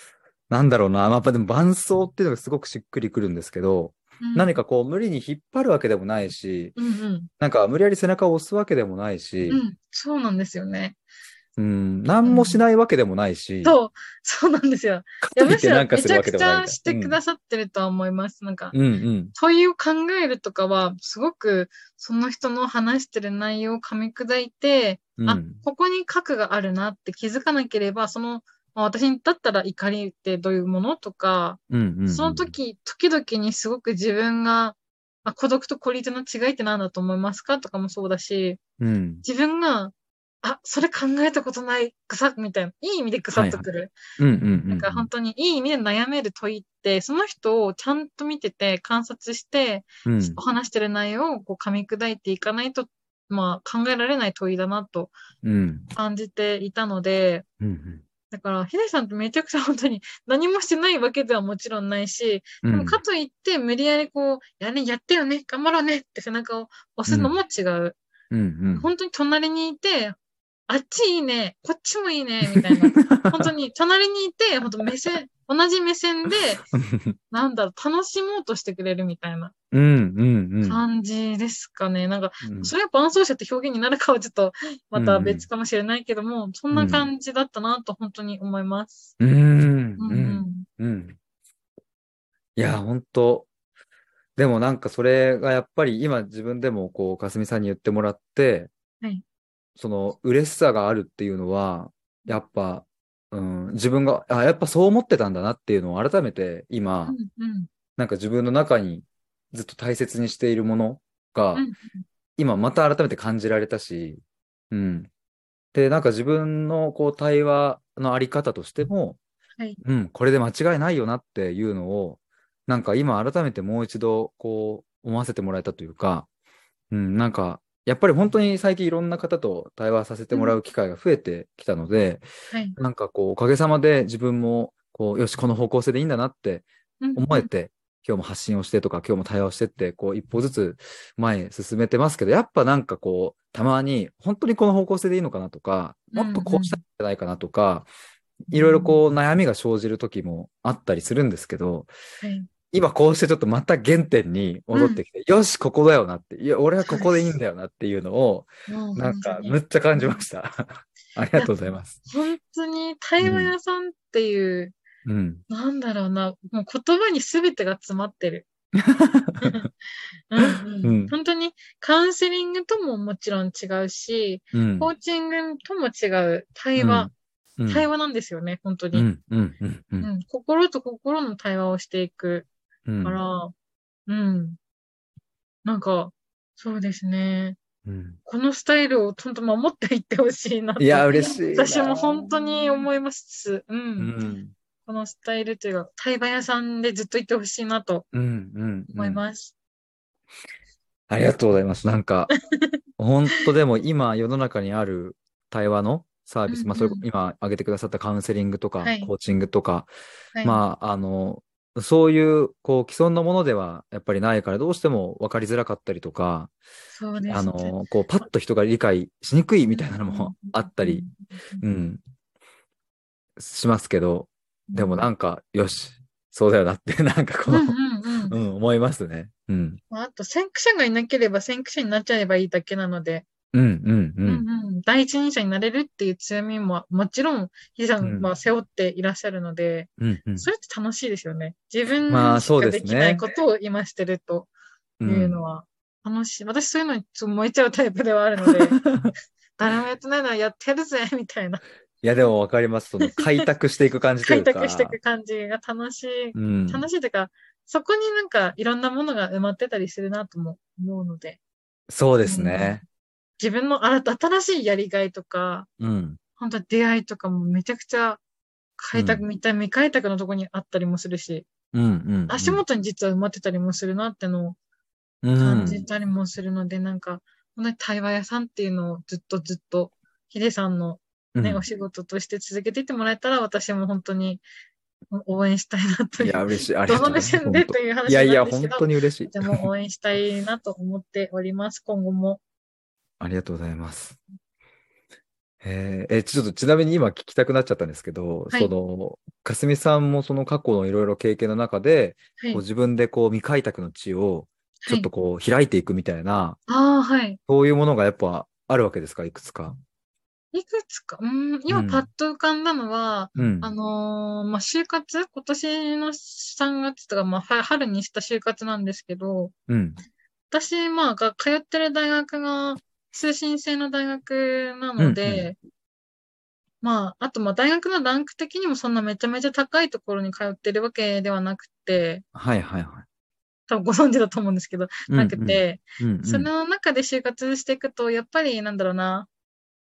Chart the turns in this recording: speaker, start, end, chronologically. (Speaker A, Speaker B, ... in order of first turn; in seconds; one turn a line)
Speaker A: 0.5-6.8
Speaker B: 4.2-4.5
Speaker B: 6.8-7.3
Speaker A: 7.4-9.6
Speaker B: 9.5-11.0
Speaker A: 11.6-13.8
Speaker B: 12.2-12.6
Speaker B: 13.6-18.8
Speaker A: 15.2-17.2
Speaker A: 18.7-19.4
Speaker B: 19.4-38.6
Speaker A: 25.2-25.6
Speaker A: 31.7-32.5
Speaker A: 38.8-39.2
Speaker B: 39.2-44.0
Speaker A: 43.3-43.7
Speaker A: 44.2-45.1
Speaker B: 44.7-55.1
Speaker A: 50.0-50.4
Speaker A: 55.4-55.9
Speaker B: 55.9-57.5
Speaker A: 57.6-58.0
Speaker B: 58.3-68.0
Speaker A: 62.6-63.0
Speaker A: 67.1-67.3
Speaker A: 68.3-68.9
Speaker B: 68.7-70.2
Speaker B: 70.7-76.7
Speaker A: 72.5-73.5
Speaker A: 76.7-77.2
Speaker B: 77.3-79.5
Speaker A: 79.7-80.8
Speaker B: 80.6-89.1
Speaker A: 82.4-82.7
Speaker A: 85.0-85.5
Speaker A: 86.7-87.1
Speaker A: 89.2-91.2
Speaker B: 90.0-90.7
Speaker A: 92.6-93.5
Speaker A: 94.4-98.7
Speaker A: 99.8-107.2
Speaker B: 107.1-107.7
Speaker A: 108.0-111.7
Speaker B: 111.5-112.0
Speaker A: 112.4-115.1
Speaker A: 115.7-119.2
Speaker A: 119.8-126.3
Speaker A: 126.9-132.2
Speaker B: 132.5-132.8
Speaker A: 132.8-147.9
Speaker B: 137.0-137.5
Speaker B: 146.1-146.8
Speaker A: 148.5-151.9
Speaker B: 148.5-149.0
Speaker B: 152.2-152.5
Speaker A: 152.7-162.0
Speaker B: 154.7-155.0
Speaker B: 156.8-157.3
Speaker B: 158.7-160.2
Speaker B: 162.1-164.8
Speaker A: 163.2-163.5
Speaker A: 165.1-165.4
Speaker B: 165.5-168.5
Speaker A: 168.8-169.7
Speaker B: 169.4-169.7
Speaker B: 170.3-177.1
Speaker A: 170.4-171.1
Speaker A: 174.5-174.9
Speaker A: 176.8-177.9
Speaker B: 177.7-179.1
Speaker A: 178.9-180.1
Speaker B: 180.0-182.5
Speaker A: 182.9-183.2
Speaker B: 183.0-183.5
Speaker B: 184.1-184.6
Speaker B: 185.7-187.6
Speaker A: 187.8-188.2
Speaker B: 188.3-194.1
Speaker A: 190.8-192.5
Speaker A: 194.0-194.6
Speaker B: 194.9-198.1
Speaker A: 198.1-199.2
Speaker B: 198.9-199.5
Speaker A: 201.1-202.3
Speaker B: 202.5-202.8
Speaker A: 203.0-209.9
Speaker B: 206.5-207.0
Speaker B: 208.8-209.1
Speaker B: 210.3-210.6
Speaker A: 210.4-216.5
Speaker B: 216.9-217.8
Speaker A: 217.3-221.1
Speaker B: 219.7-221.6
Speaker A: 221.6-222.0
Speaker A: 223.4-229.8
Speaker B: 224.7-225.0
Speaker B: 227.5-228.4
Speaker B: 229.9-233.3
Speaker A: 233.5-234.4
Speaker B: 234.3-244.5
Speaker A: 238.0-238.3
Speaker A: 240.0-240.5
Speaker A: 242.1-243.2
Speaker A: 245.0-245.4
Speaker B: 245.1-248.8
Speaker A: 248.4-249.1
Speaker B: 249.6-251.6
Speaker A: 252.0-255.0
Speaker B: 254.2-261.4
Speaker A: 256.4-256.9
Speaker A: 261.9-262.8
Speaker B: 262.2-262.8
Speaker B: 263.4-265.7
Speaker A: 265.8-266.2
Speaker B: 266.4-268.2
Speaker B: 268.8-271.5
Speaker A: 268.9-269.2
Speaker A: 271.7-272.6
Speaker B: 272.3-274.6
Speaker A: 275.2-275.8
Speaker B: 275.4-284.4
Speaker A: 281.4-281.6
Speaker B: 285.1-292.4
Speaker A: 286.2-289.7
Speaker A: 293.2-294.2
Speaker A: 295.6-306.6
Speaker B: 302.4-302.6
Speaker B: 304.8-305.1
Speaker B: 306.7-307.4
Speaker A: 307.5-309.8
Speaker B: 310.5-319.5
Speaker A: 311.7-312.1
Speaker A: 313.4-313.7
Speaker A: 319.7-320.0
Speaker B: 320.5-325.6
Speaker A: 325.0-325.5
Speaker B: 326.8-332.2
Speaker A: 332.3-333.1
Speaker B: 333.7-339.3
Speaker A: 335.1-336.5